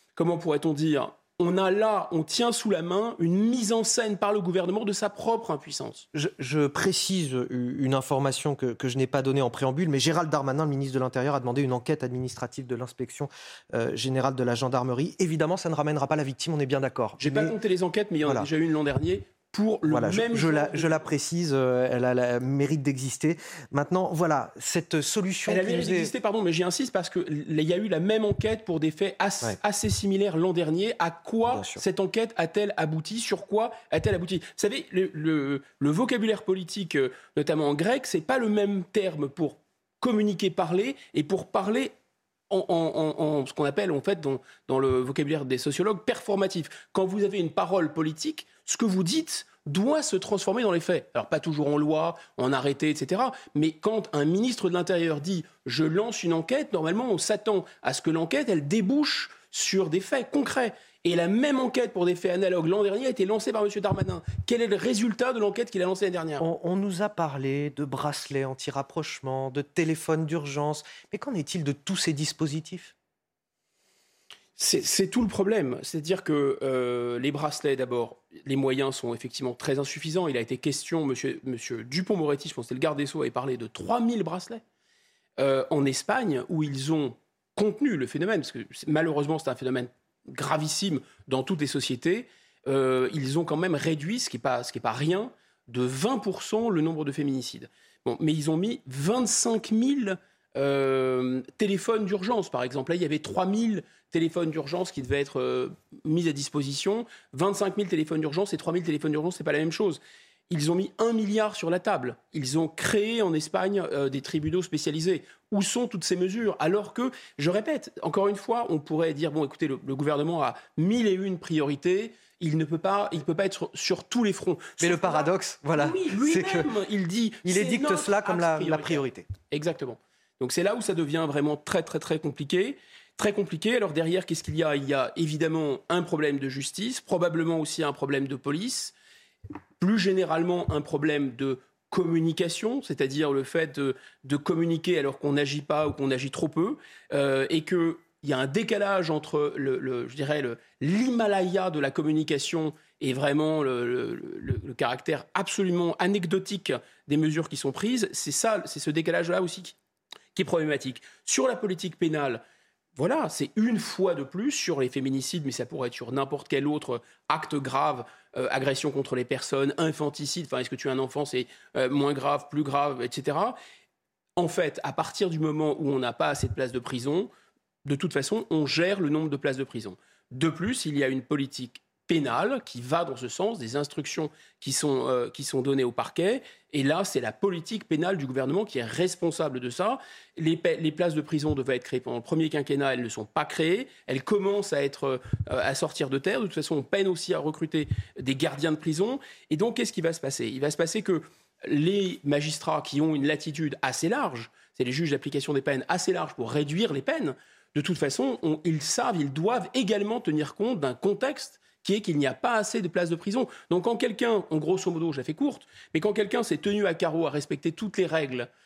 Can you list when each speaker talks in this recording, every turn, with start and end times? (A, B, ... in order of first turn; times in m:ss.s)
0:00.2-0:06.0 A
0:06.1-0:17.5 B
0:17.2-0:21.1 A
0:19.9-0:26.1 B
0:25.5-0:41.9 A
0:31.5-0:31.8 B
0:42.5-1:06.4 A
1:06.4-1:12.9 B
1:14.6-1:24.6 A
1:25.4-2:18.9 A
2:04.8-2:06.7 B
2:07.4-2:09.3 B
2:19.8-2:39.8 A
2:40.3-2:42.4 A
2:43.0-2:53.6 A
2:54.4-2:57.3 A
2:57.8-3:38.5 A